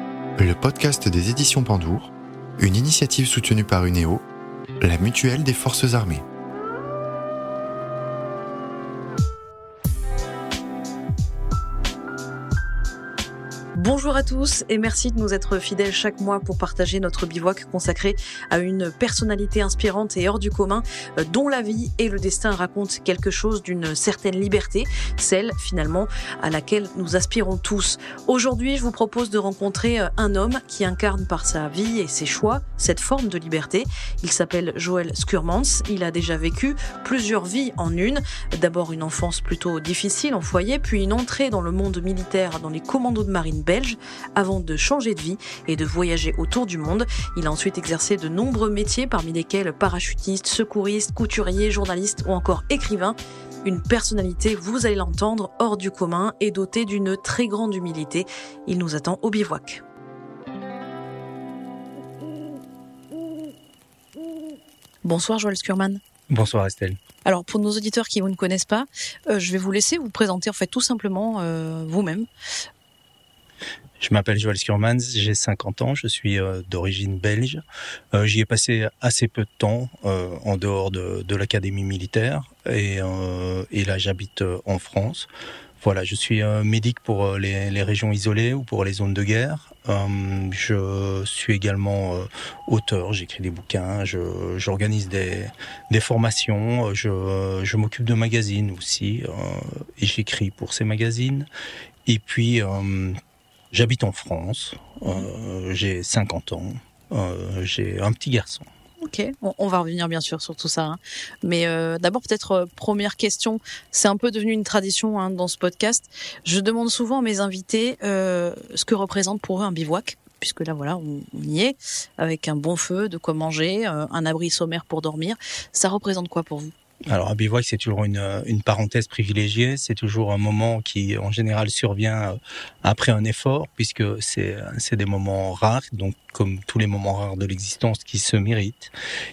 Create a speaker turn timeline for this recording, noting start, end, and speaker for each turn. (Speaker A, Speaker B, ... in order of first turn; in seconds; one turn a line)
Speaker A: 0.4-4.2
Speaker A: 4.8-6.2
Speaker B: 13.7-59.8
Speaker B: 65.0-66.0
Speaker C: 66.3-67.0
Speaker B: 67.2-72.3
Speaker C: 74.0-77.6
Speaker C: 78.1-85.3
Speaker C: 85.8-101.5
Speaker C: 102.0-103.2
Speaker C: 103.7-108.7
Speaker B: 109.0-126.7
Speaker C: 127.1-138.9